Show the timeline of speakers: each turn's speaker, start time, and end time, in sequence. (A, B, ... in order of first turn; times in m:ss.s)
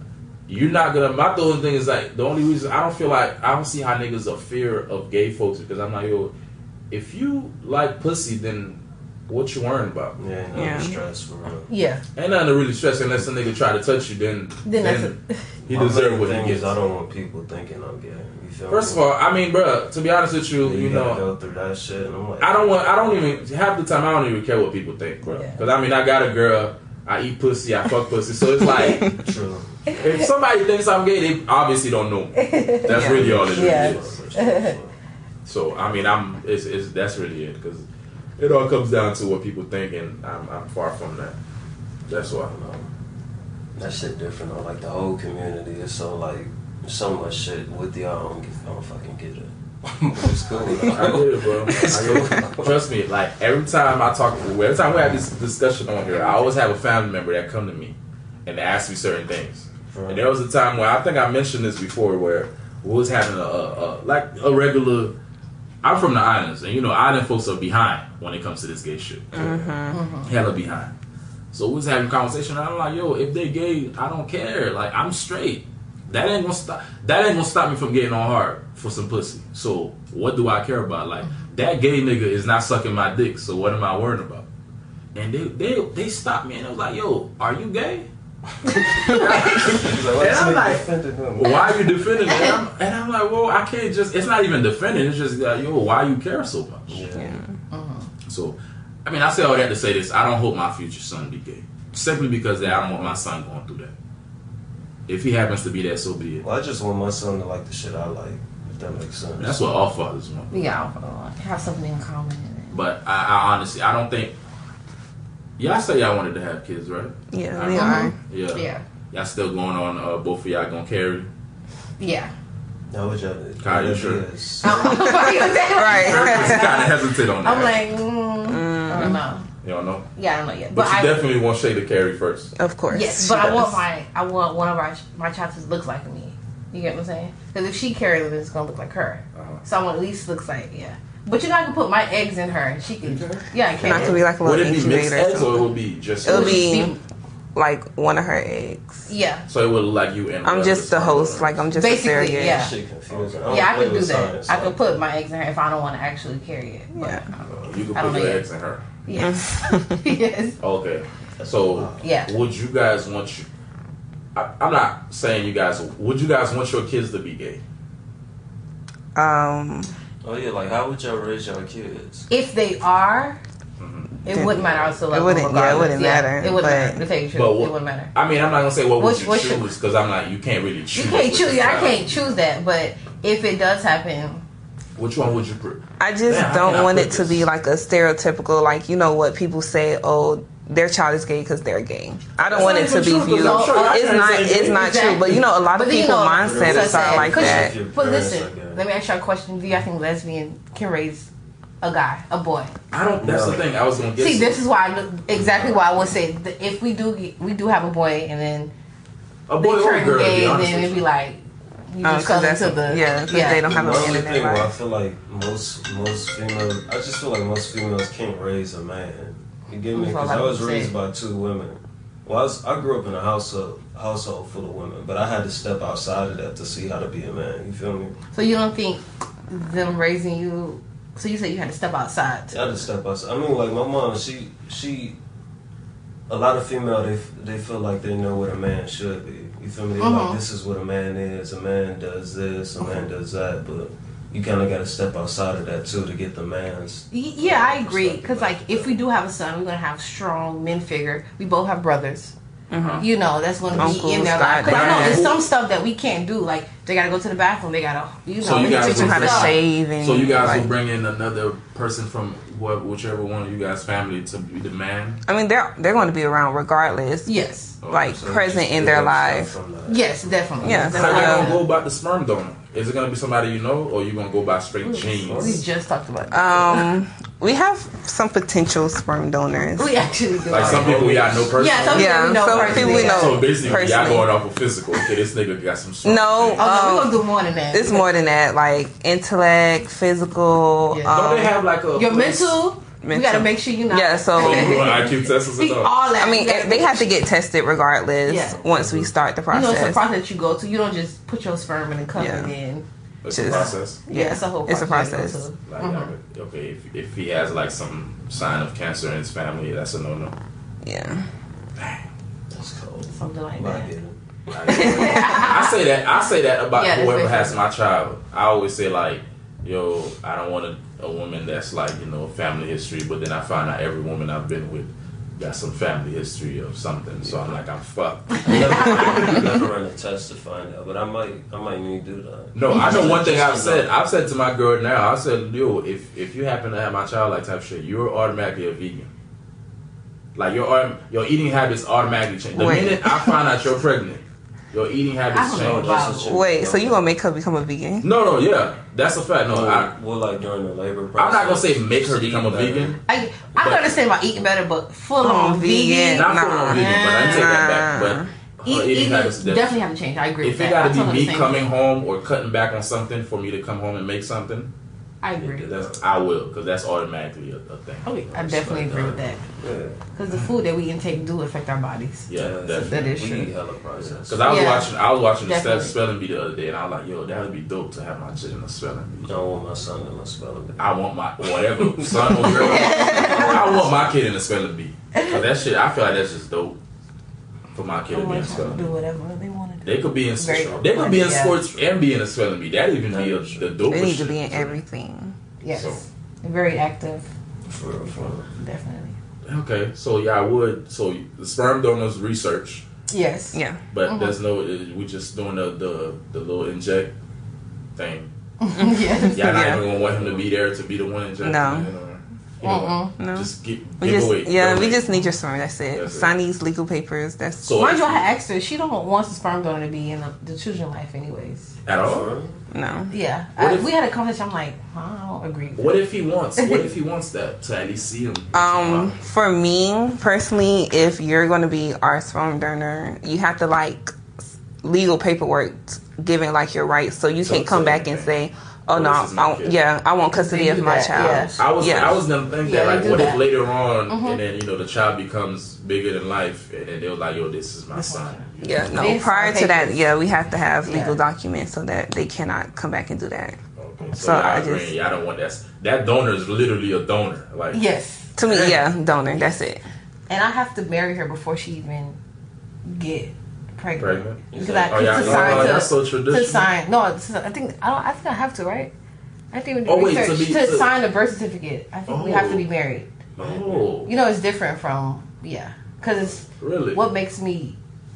0:00.5-0:06.3 A
0:06.9-0:10.2 A
0:10.2-0:11.7 B
0:10.5-0:11.0 C
0:11.7-0:12.0 D
0:12.2-0:15.2 A
0:14.6-0:15.4 D
0:15.6-0:19.0 B
0:15.7-0:16.7 A
0:18.7-0:21.2 A
0:20.6-0:22.8 B
0:22.4-0:29.1 A
0:25.2-0:25.6 D
0:28.7-0:29.0 D
0:29.0-0:29.8 B
0:29.9-0:30.2 D
0:29.9-0:34.2 A
0:32.4-0:34.8 D
0:32.9-0:33.2 C
0:33.0-0:35.0 B
0:35.4-0:37.9 A
0:38.4-0:41.4 A
0:42.1-0:42.5 A
0:42.3-0:42.9 B
0:43.8-0:52.8 B
0:50.6-1:05.1 A
0:59.9-1:00.2 B
1:05.8-1:09.7 A
1:09.3-1:10.0 C
1:09.9-1:10.3 D
1:10.2-1:10.9 A
1:11.5-1:24.4 A
1:25.1-1:28.1 A
1:28.7-1:31.7 B
1:28.8-1:37.0 A
1:31.4-1:31.7 D
1:32.2-1:32.5 D
1:36.9-1:37.4 B
1:37.1-1:37.5 C
1:37.7-1:38.1 D
1:38.2-1:43.9 A
1:42.6-1:43.2 B
1:45.1-1:46.4 A
1:46.4-1:49.6 B
1:49.4-1:50.5 A
1:50.5-1:52.8 D
1:52.7-1:54.4 A
1:55.6-2:01.3 A
1:57.3-1:58.1 C
1:57.7-1:58.8 D
2:02.0-2:02.3 D
2:02.9-2:05.2 B
2:03.6-2:04.2 A
2:04.6-2:09.4 D
2:04.9-2:06.8 C
2:05.8-2:07.9 A
2:08.5-2:09.2 C
2:09.0-2:10.1 A
2:10.2-2:11.2 D
2:10.7-2:12.5 A
2:12.6-2:13.8 C
2:12.9-2:24.2 D
2:19.4-2:19.6 A
2:23.1-2:24.2 B
2:23.8-2:25.7 C
2:24.4-2:26.9 A
2:26.2-2:26.9 C
2:26.2-2:27.0 D
2:27.5-2:29.1 C
2:29.1-2:29.4 D
2:29.5-2:31.6 A
2:30.4-2:32.6 C
2:31.7-2:32.7 D
2:32.4-2:34.8 B
2:33.1-2:33.7 A
2:33.5-2:37.3 D
2:36.9-2:37.2 C
2:37.5-2:38.8 A
2:37.5-2:37.7 B
2:37.9-2:38.4 D
2:39.0-2:40.6 D
2:39.1-2:40.0 C
2:40.6-2:43.5 A
2:41.4-2:42.0 B
2:42.0-2:42.3 D
2:44.4-2:47.6 A
2:49.1-2:49.9 C
2:50.2-2:52.3 B
2:52.3-2:53.4 D
2:53.8-2:54.1 A
2:54.2-2:58.1 D
2:54.3-2:54.5 C
2:55.1-2:57.0 C
2:57.3-3:02.2 A
2:59.0-2:59.7 D
3:00.9-3:04.4 D
3:05.0-3:07.5 A
3:06.0-3:17.7 C
3:12.4-3:15.1 A
3:12.5-3:21.3 D
3:16.4-3:18.8 B
3:21.8-3:22.7 D
3:22.9-3:24.6 A
3:23.2-3:23.6 B
3:24.2-3:28.7 D
3:25.3-3:26.0 A
3:29.5-3:31.0 A
3:29.6-3:33.7 D
3:32.0-3:34.7 C
3:33.5-3:48.2 B
3:39.9-3:40.9 D
3:48.3-3:52.8 D
3:52.5-3:55.2 B
3:56.3-4:09.0 B
4:00.0-4:00.4 D
4:07.1-4:12.4 D
4:12.7-4:13.1 C
4:12.8-4:13.0 A
4:13.0-4:19.6 D
4:13.7-4:14.0 B
4:13.7-4:15.3 C
4:14.6-4:15.4 A
4:18.4-4:25.2 A
4:18.5-4:20.7 C
4:25.2-4:27.3 C
4:27.2-4:27.8 D
4:27.8-4:28.2 A
4:27.9-4:29.5 C
4:28.0-4:30.4 B
4:29.9-4:31.7 D
4:30.6-4:31.6 C
4:30.6-4:35.6 A
4:34.8-4:36.9 D
4:35.1-4:35.6 B
4:36.3-4:39.9 C
4:39.8-4:41.0 D
4:40.5-4:46.6 A
4:40.5-4:41.8 B
4:41.5-4:43.5 D
4:41.9-4:44.3 C
4:42.5-4:42.9 B
4:43.5-4:44.2 B
4:46.0-4:51.5 C
4:46.6-4:48.1 D
4:50.9-4:51.2 D
4:51.1-4:52.6 A
4:51.9-4:57.1 D
4:53.0-4:55.0 C
4:54.4-4:55.9 A
4:56.2-5:00.0 C
4:58.2-4:58.6 D
4:58.4-4:59.1 B
4:59.5-5:02.8 D
5:02.1-5:02.5 C
5:03.2-5:04.0 A
5:03.3-5:05.5 C
5:03.5-5:06.1 D
5:05.7-5:10.3 A
5:10.8-5:11.2 C
5:11.8-5:12.1 A
5:12.5-5:15.0 B
5:13.1-5:13.9 D
5:14.5-5:29.6 A
5:14.7-5:15.8 D
5:16.7-5:17.6 D
5:27.2-5:27.6 B
5:28.4-5:33.9 B
5:32.5-5:39.1 A
5:40.4-5:46.2 A
5:42.5-5:43.4 C
5:45.3-5:46.3 D
5:45.5-5:47.0 B
5:46.2-5:48.1 C
5:48.0-5:49.9 A
5:49.5-5:53.0 B
5:51.2-5:53.0 A
5:53.1-5:57.6 D
5:53.6-5:53.9 A
5:55.2-5:58.3 C
5:56.1-5:59.8 A
5:58.6-6:01.7 D
6:00.4-6:04.7 A
6:05.2-6:05.7 D
6:05.4-6:06.0 B
6:05.5-6:08.1 A
6:08.0-6:09.4 D
6:08.3-6:10.0 B
6:10.1-6:13.5 D
6:12.3-6:13.1 A
6:12.3-6:14.7 B
6:14.0-6:19.3 A
6:14.4-6:14.9 D
6:15.4-6:15.9 D
6:19.2-6:20.9 B
6:20.8-6:26.8 A
6:21.5-6:24.2 B
6:22.5-6:23.8 D
6:25.1-6:25.4 D
6:27.7-6:28.9 A
6:28.1-6:31.6 D
6:29.8-6:34.8 A
6:30.4-6:31.8 B
6:33.1-6:33.7 B
6:33.9-6:35.4 C
6:35.6-6:37.2 D
6:35.7-6:36.0 A
6:37.7-6:38.5 B
6:38.5-6:39.2 D
6:39.4-6:42.8 A
6:43.1-6:44.4 D
6:43.5-6:43.8 C
6:43.9-6:47.1 A
6:48.0-6:48.3 A
6:48.6-6:49.7 D
6:48.8-6:49.8 C
6:49.2-6:55.2 A
6:50.0-6:50.4 B
6:51.4-6:51.9 C
6:52.6-6:53.1 D
6:53.2-6:57.8 C
6:55.9-6:56.3 A
6:57.6-6:58.3 A
6:57.8-7:01.7 D
7:01.9-7:02.3 A
7:02.0-7:02.6 B
7:02.7-7:03.1 C
7:03.1-7:05.9 D
7:03.6-7:03.9 A
7:05.8-7:09.1 A
7:08.5-7:14.2 C
7:14.8-7:22.2 C
7:17.4-7:18.3 A
7:18.9-7:19.8 A
7:20.3-7:21.6 D
7:21.3-7:22.1 B
7:21.6-7:29.0 A
7:22.6-7:23.4 D
7:24.1-7:24.4 D
7:28.0-7:28.3 D
7:28.6-7:33.6 C
7:28.9-7:30.1 D
7:30.8-7:31.2 D
7:33.8-7:37.8 A
7:34.1-7:34.9 C
7:37.7-7:38.4 D
7:38.4-7:39.8 C
7:38.4-7:38.8 A
7:40.3-7:42.2 D
7:42.8-7:48.9 D
7:44.0-7:46.7 A
7:44.5-7:45.8 B
7:49.5-7:53.1 D
7:49.8-7:50.9 A
7:52.1-7:52.6 A
7:53.4-7:53.9 B
7:53.4-7:54.1 A
7:54.0-7:57.8 D
7:56.6-7:57.0 A